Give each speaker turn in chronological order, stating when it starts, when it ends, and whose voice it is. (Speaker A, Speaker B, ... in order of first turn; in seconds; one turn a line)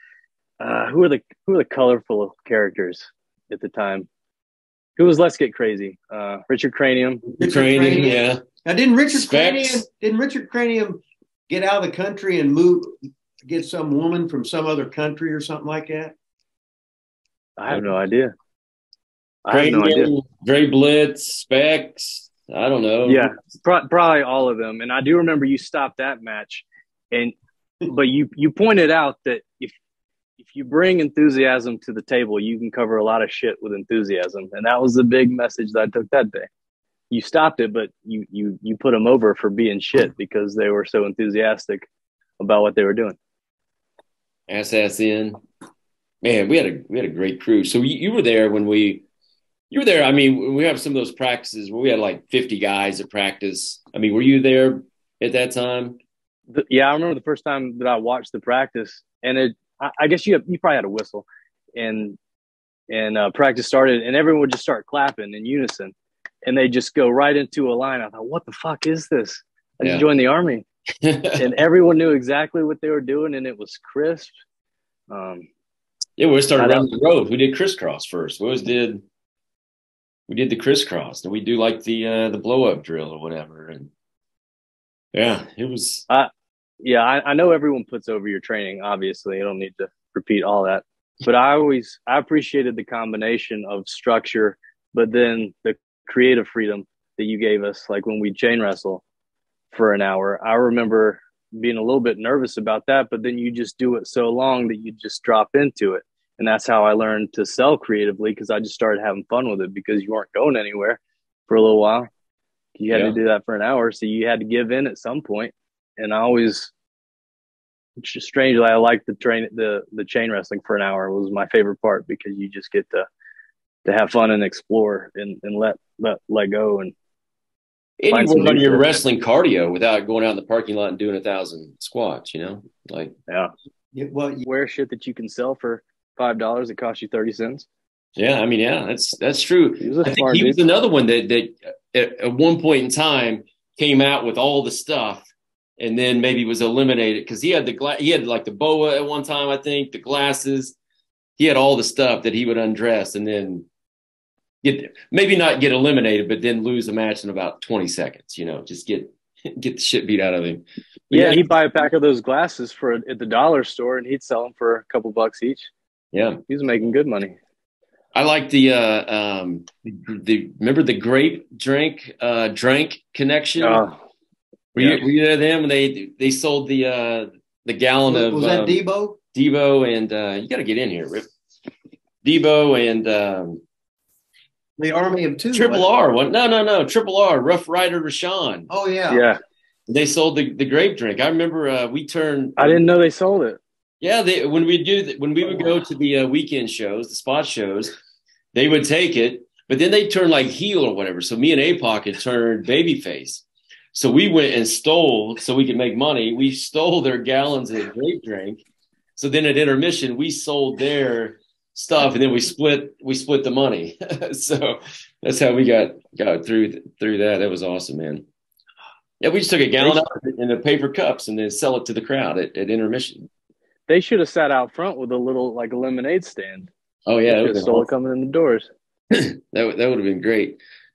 Speaker A: 0.6-4.1
Speaker A: 5.0-7.2
Speaker B: 7.3-8.4
Speaker C: 7.4-16.1
Speaker B: 9.1-9.8
Speaker A: 17.6-18.3
Speaker A: 19.4-20.1
Speaker B: 19.5-23.4
Speaker A: 23.1-29.7
Speaker A: 30.4-36.5
Speaker A: 37.1-41.9
Speaker A: 42.4-43.2
Speaker B: 44.5-45.4
Speaker B: 46.2-49.0
Speaker B: 49.7-56.0
Speaker A: 56.5-62.2
Speaker A: 62.9-65.9
Speaker A: 66.5-70.6
Speaker B: 71.0-71.4
Speaker A: 71.4-74.3
Speaker A: 75.1-75.5
Speaker B: 76.2-79.0
Speaker A: 76.6-76.9
Speaker B: 80.3-83.9
Speaker B: 85.1-86.1
Speaker A: 86.8-99.0
Speaker A: 99.7-112.1
Speaker A: 112.8-116.7
Speaker B: 112.9-113.2
Speaker A: 118.0-123.1
Speaker A: 123.8-126.9
Speaker B: 128.0-133.1
Speaker A: 128.1-128.9
Speaker C: 133.9-134.5
Speaker A: 134.5-137.7
Speaker B: 138.2-145.3
Speaker A: 139.8-140.6
Speaker B: 145.8-150.8
Speaker B: 151.4-153.7
Speaker B: 154.6-161.4
Speaker A: 161.1-165.7
Speaker B: 166.1-166.4
Speaker A: 166.5-167.3
Speaker B: 168.2-173.8
Speaker A: 173.6-173.9
Speaker B: 174.8-178.8
Speaker A: 174.8-175.0
Speaker C: 178.1-179.2
Speaker B: 179.3-181.3
Speaker B: 182.2-183.6
Speaker C: 184.8-185.9
Speaker B: 185.5-188.7
Speaker C: 188.7-189.3
Speaker A: 189.1-189.4
Speaker B: 189.9-192.9
Speaker A: 192.6-193.6
Speaker B: 194.0-197.9
Speaker B: 198.5-208.6
Speaker B: 209.2-218.2
Speaker B: 219.2-223.3
Speaker A: 223.9-226.7
Speaker B: 227.1-227.9
Speaker A: 227.3-228.7
Speaker B: 229.1-230.6